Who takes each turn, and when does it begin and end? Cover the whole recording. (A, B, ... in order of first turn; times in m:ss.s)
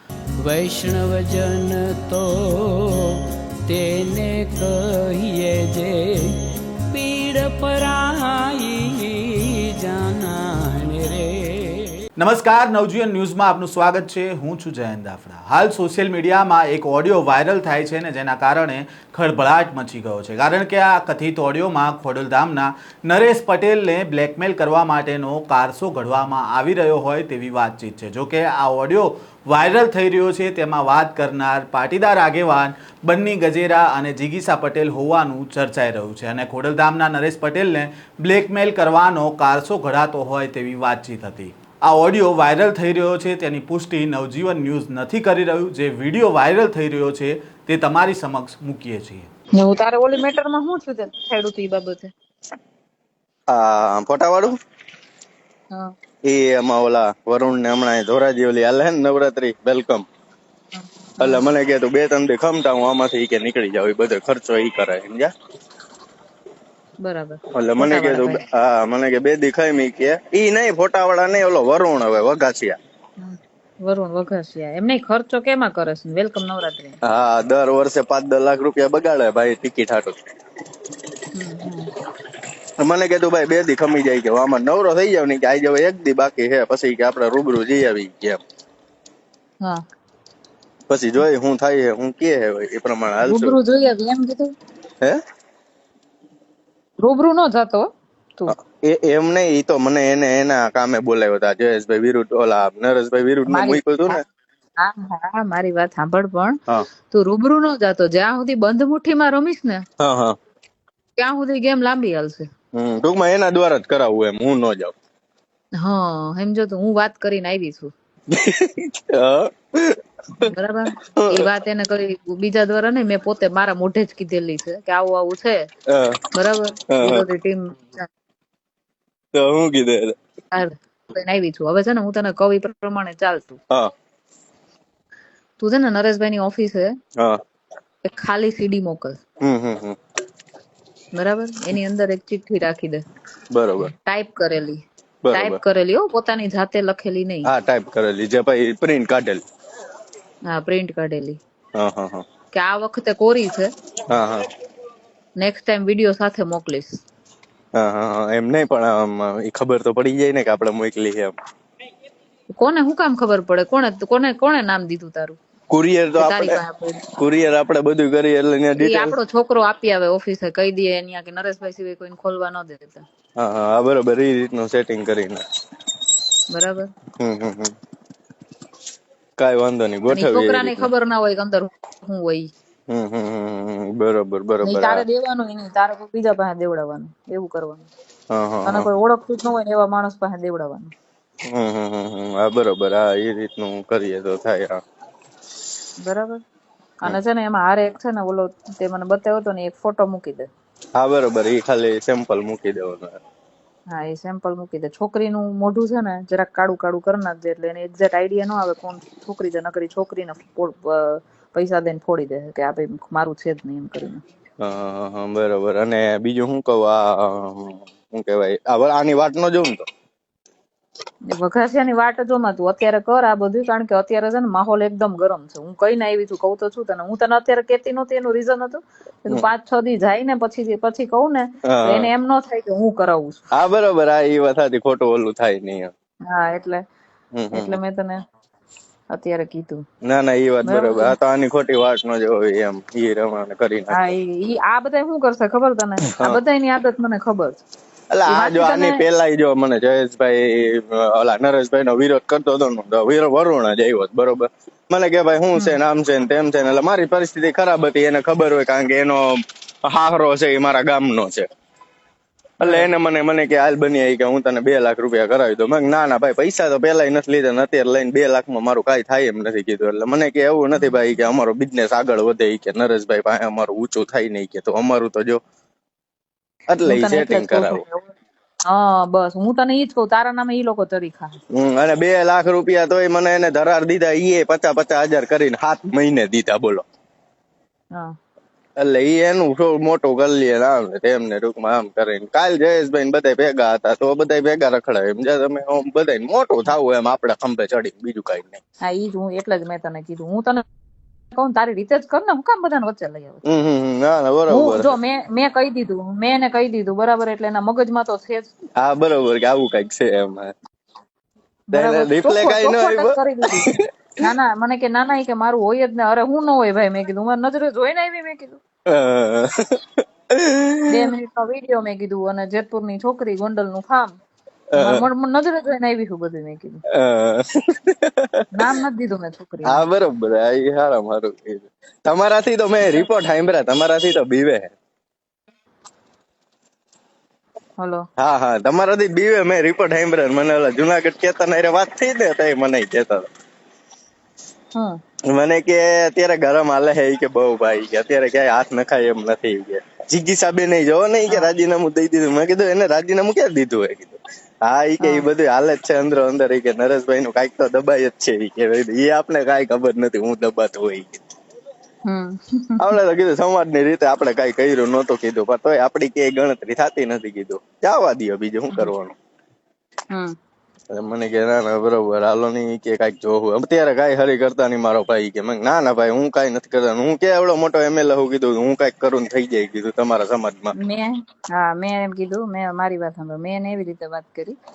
0:00.4-0:06.3 A
0:06.9-0:12.0 A
0:12.2-0:49.3 B
0:49.6-0:52.1 C
0:53.5-0:54.5 D
0:56.2-1:00.0 D
1:00.7-1:01.5 C
1:01.2-1:05.3 D
1:07.0-1:08.4 C
1:07.6-1:12.8 D
1:13.2-1:17.0 C
1:17.0-1:20.2 D
1:21.3-1:21.9 C
1:22.8-1:28.4 D
1:30.9-1:33.6 D
1:33.2-1:34.5 C
1:37.0-1:37.9 C
1:38.5-1:44.2 D
1:43.5-1:44.2 C
1:44.8-1:46.6 C
1:47.1-1:49.8 C
1:50.0-1:50.4 D
1:51.2-1:52.5 C
1:52.7-1:54.9 D
1:55.8-1:57.9 C
1:58.3-2:00.5 D
2:00.4-2:05.7 C
2:01.2-2:01.5 D
2:05.9-2:06.2 D
2:06.3-2:08.1 C
2:06.9-2:07.3 D
2:09.3-2:10.1 D
2:10.5-2:13.6 C
2:15.6-2:16.9 C
2:18.0-2:19.2 C
2:19.4-2:20.0 D
2:21.2-2:23.0 C
2:23.5-2:23.9 D
2:23.8-2:24.8 C
2:25.2-2:25.6 D
2:25.3-2:27.5 C
2:27.4-2:29.4 D
2:30.5-2:31.4 C
2:31.8-2:32.2 D
2:32.5-2:33.7 C
2:34.1-2:34.4 D
2:35.4-2:37.0 C
2:37.8-2:41.3 D
2:42.5-2:45.4 C
2:45.7-2:46.6 D
2:46.2-2:47.0 C
2:47.2-2:49.2 D
2:48.8-2:53.0 C
2:53.4-2:55.4 D
2:56.5-2:56.9 C
2:57.2-2:57.7 D
2:59.4-3:00.9 D
3:00.1-3:02.5 C
3:02.9-3:05.0 D
3:04.6-3:07.9 C
3:08.3-3:08.9 D
3:08.7-3:10.9 C
3:11.5-3:14.8 D
3:16.0-3:16.4 C
3:17.0-3:20.5 C
3:21.0-3:23.1 D
3:23.9-3:34.2 C
3:34.6-3:39.8 D
3:41.3-3:53.4 C
3:51.7-3:52.1 D
3:53.6-3:55.9 D
3:56.3-3:56.8 C
3:57.3-3:57.8 D
3:57.5-3:58.2 C
3:59.1-3:59.8 C
4:00.0-4:04.0 D
4:00.6-4:01.1 C
4:03.9-4:07.6 C
4:06.1-4:06.4 D
4:08.1-4:19.2 D
4:08.2-4:09.0 C
4:19.8-4:21.5 D
4:22.6-4:35.4 D
4:22.6-4:22.9 C
4:36.7-4:37.8 D
4:36.8-4:38.1 C
4:38.7-4:41.3 C
4:41.5-4:46.8 D
4:48.8-4:58.6 D
4:58.9-5:00.6 C
5:01.3-5:03.4 C
5:03.5-5:04.9 D
5:04.5-5:08.5 C
5:08.8-5:10.5 D
5:11.7-5:18.6 C
5:11.7-5:14.3 D
5:18.9-5:21.1 D
5:20.9-5:24.1 C
5:24.7-5:25.1 D
5:24.8-5:26.8 C
5:27.0-5:28.7 D
5:28.5-5:29.8 C
5:29.6-5:34.7 D
5:37.8-5:38.0 C
5:38.2-5:43.2 D
5:45.3-6:01.2 D
5:55.0-5:55.3 C
6:02.1-6:02.9 C
6:02.8-6:09.1 D
6:10.9-6:20.7 D
6:20.8-6:24.6 C